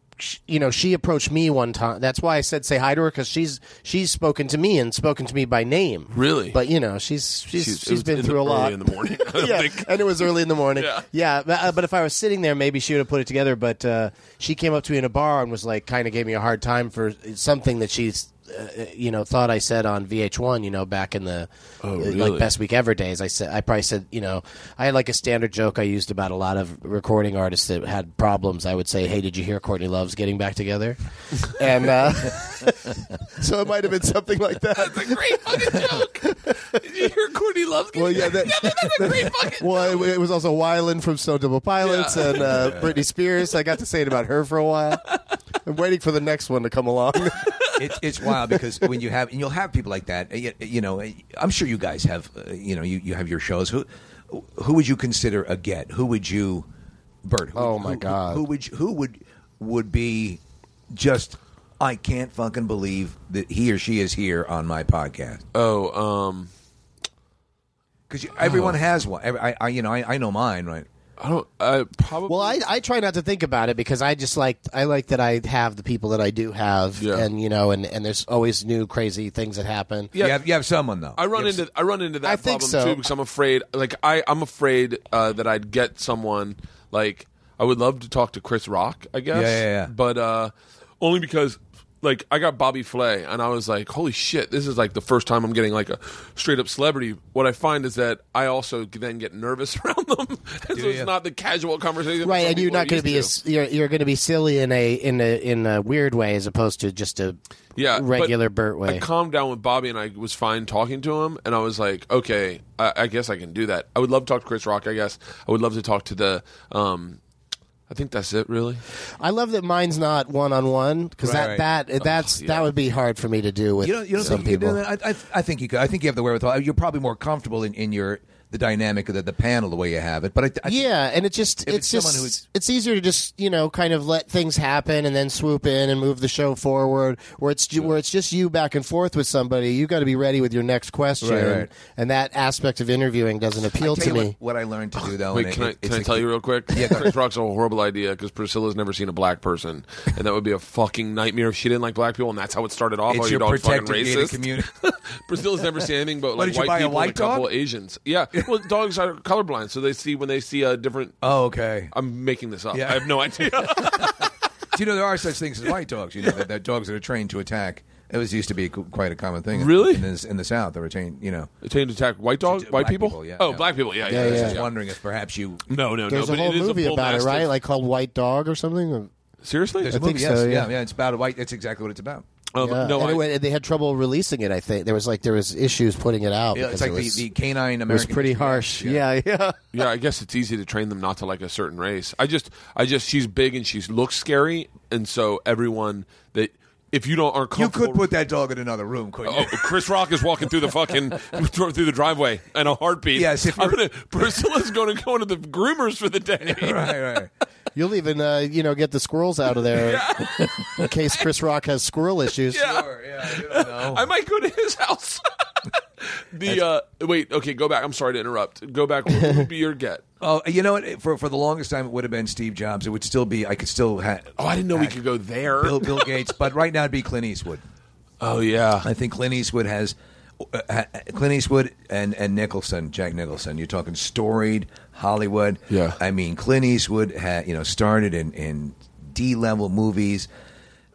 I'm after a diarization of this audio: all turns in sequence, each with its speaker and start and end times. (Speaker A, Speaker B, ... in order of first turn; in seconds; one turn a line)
Speaker A: 0.2-36.8
Speaker B: 6.1-6.6
Speaker B: 7.5-11.0
Speaker B: 21.8-22.5
Speaker B: 34.8-40.1
Speaker A: 37.9-45.0
Speaker B: 41.8-42.8
Speaker C: 42.3-42.9
Speaker A: 45.6-47.7
Speaker B: 47.4-47.8
Speaker C: 47.8-56.7
Speaker C: 57.2-60.4
Speaker A: 57.5-58.4
Speaker C: 60.9-65.4
Speaker B: 65.5-66.5
Speaker C: 68.1-70.9
Speaker B: 68.4-68.7
Speaker B: 71.2-72.6
Speaker A: 72.3-80.1
Speaker B: 77.0-77.3
Speaker B: 80.1-80.4
Speaker C: 80.1-81.6
Speaker B: 81.2-103.3
Speaker A: 82.2-83.0
Speaker C: 89.3-89.9
Speaker C: 100.7-101.1
Speaker A: 102.2-107.4
Speaker B: 107.8-108.3
Speaker A: 107.9-109.0
Speaker B: 108.8-117.2
Speaker B: 117.9-118.8
Speaker A: 119.2-124.8
Speaker C: 121.2-121.6
Speaker B: 122.0-122.7
Speaker C: 123.8-130.9
Speaker A: 130.7-144.3
Speaker C: 131.6-132.4
Speaker C: 141.2-141.7
Speaker C: 143.8-147.1
Speaker B: 145.3-161.2
Speaker C: 153.1-154.7
Speaker C: 155.8-157.5
Speaker C: 161.2-161.9
Speaker B: 161.9-164.3
Speaker C: 162.7-171.5
Speaker B: 169.5-170.0
Speaker B: 171.6-174.7
Speaker C: 172.4-175.7
Speaker A: 174.1-174.6
Speaker B: 175.7-177.5
Speaker A: 176.1-179.1
Speaker B: 179.4-179.9
Speaker C: 179.8-182.3
Speaker A: 179.9-180.7
Speaker B: 182.5-183.2
Speaker A: 182.6-187.2
Speaker C: 186.5-189.0
Speaker A: 187.9-189.6
Speaker B: 189.7-198.1
Speaker C: 197.5-199.8
Speaker B: 199.2-207.0
Speaker C: 203.1-203.8
Speaker C: 206.4-207.3
Speaker A: 207.8-210.0
Speaker B: 209.7-211.2
Speaker C: 210.4-210.7
Speaker A: 210.8-212.6
Speaker B: 212.5-220.0
Speaker C: 212.5-214.0
Speaker C: 220.2-225.0
Speaker B: 224.4-226.1
Speaker C: 225.5-227.6
Speaker B: 228.2-228.9
Speaker C: 228.8-240.3
Speaker B: 235.7-236.0